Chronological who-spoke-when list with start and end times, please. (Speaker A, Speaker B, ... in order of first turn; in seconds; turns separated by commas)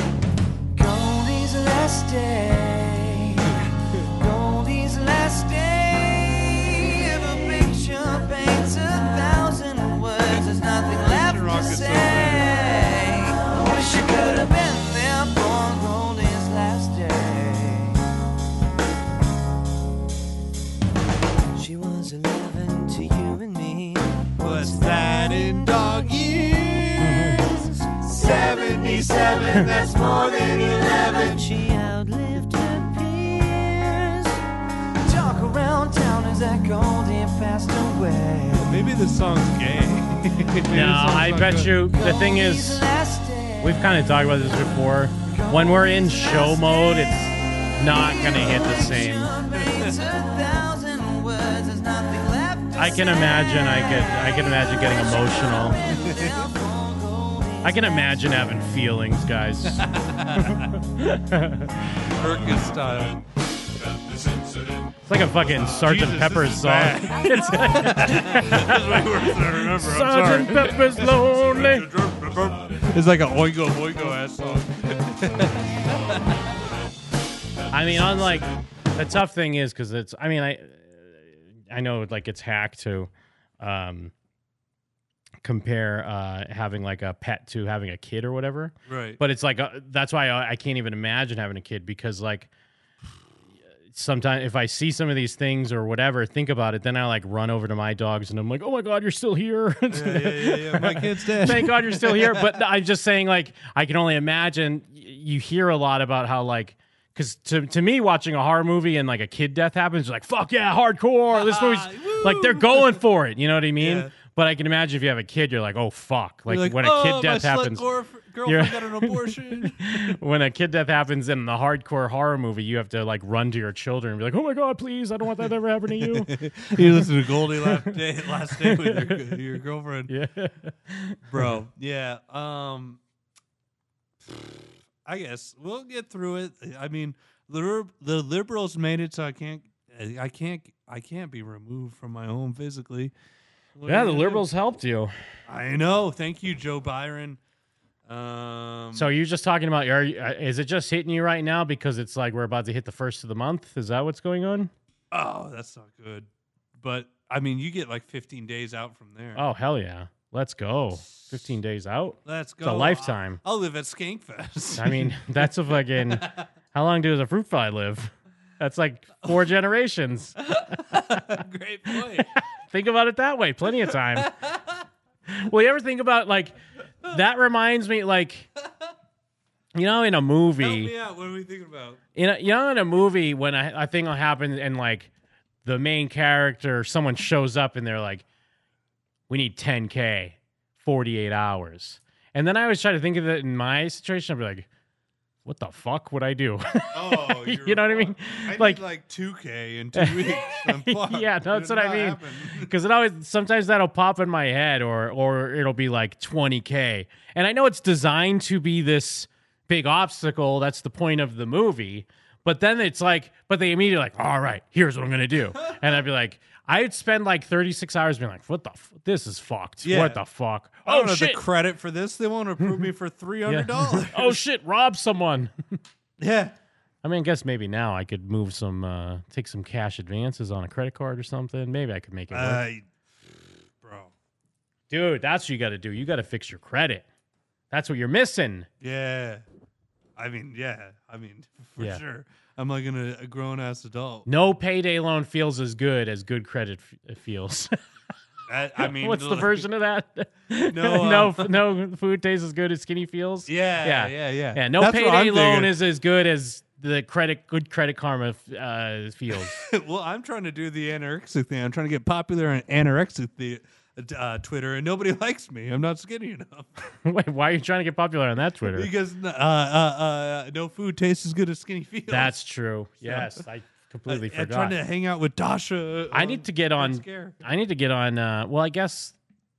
Speaker A: 0.8-3.6, Speaker B: 3.5-4.0, Speaker A: 4.2-18.0, Speaker B: 11.0-12.8, Speaker A: 21.6-26.2, Speaker B: 24.4-27.5, Speaker C: 27.0-27.4, Speaker A: 27.2-34.4, Speaker B: 28.2-31.4, Speaker A: 35.0-38.7, Speaker B: 38.5-41.9, Speaker C: 40.7-42.8, Speaker A: 41.9-58.4, Speaker C: 43.6-49.3, Speaker B: 49.6-49.9, Speaker C: 52.8-55.8, Speaker B: 55.8-56.3, Speaker C: 57.6-59.9, Speaker B: 59.7-60.7, Speaker C: 60.4-61.8, Speaker B: 62.0-63.2, Speaker C: 65.1-71.9, Speaker B: 65.6-76.5, Speaker C: 77.7-84.1, Speaker C: 85.4-92.5, Speaker B: 88.9-89.2, Speaker C: 93.9-117.8, Speaker B: 99.9-102.6, Speaker B: 111.3-113.0, Speaker B: 113.8-114.1, Speaker B: 116.5-120.1, Speaker C: 118.5-126.3, Speaker B: 126.0-130.1, Speaker C: 127.6-128.0, Speaker C: 128.5-129.4, Speaker C: 130.1-131.6, Speaker B: 131.3-133.0, Speaker B: 135.1-143.1, Speaker B: 143.8-144.5, Speaker C: 143.9-145.1, Speaker B: 145.5-147.4, Speaker B: 148.1-149.1, Speaker C: 148.9-154.7, Speaker B: 155.1-156.3, Speaker B: 156.8-159.4, Speaker C: 159.3-163.4, Speaker B: 161.1-161.6, Speaker B: 162.2-166.5, Speaker C: 164.8-170.4, Speaker B: 170.4-172.3, Speaker C: 172.2-174.3, Speaker B: 173.9-174.8, Speaker C: 175.3-176.5, Speaker C: 177.1-178.5, Speaker C: 179.8-180.9, Speaker B: 180.6-182.0, Speaker C: 182.2-185.1, Speaker C: 185.7-188.2, Speaker C: 189.3-194.7, Speaker C: 195.4-198.8, Speaker B: 196.9-202.7, Speaker C: 200.0-221.4, Speaker B: 219.8-220.2, Speaker B: 220.8-224.4, Speaker C: 223.5-225.5, Speaker B: 226.2-226.5, Speaker C: 227.0-232.6, Speaker B: 232.3-232.8, Speaker B: 233.8-234.1, Speaker C: 234.9-237.1, Speaker C: 237.7-238.7, Speaker B: 238.8-239.4, Speaker B: 240.2-244.3, Speaker C: 244.3-247.7, Speaker B: 248.5-249.6, Speaker C: 248.8-259.6, Speaker B: 250.7-251.6, Speaker B: 253.5-255.7, Speaker B: 259.4-266.7, Speaker C: 267.1-268.9, Speaker B: 268.7-272.4, Speaker C: 272.1-274.8, Speaker B: 273.0-273.4, Speaker B: 274.1-277.4, Speaker C: 276.1-279.1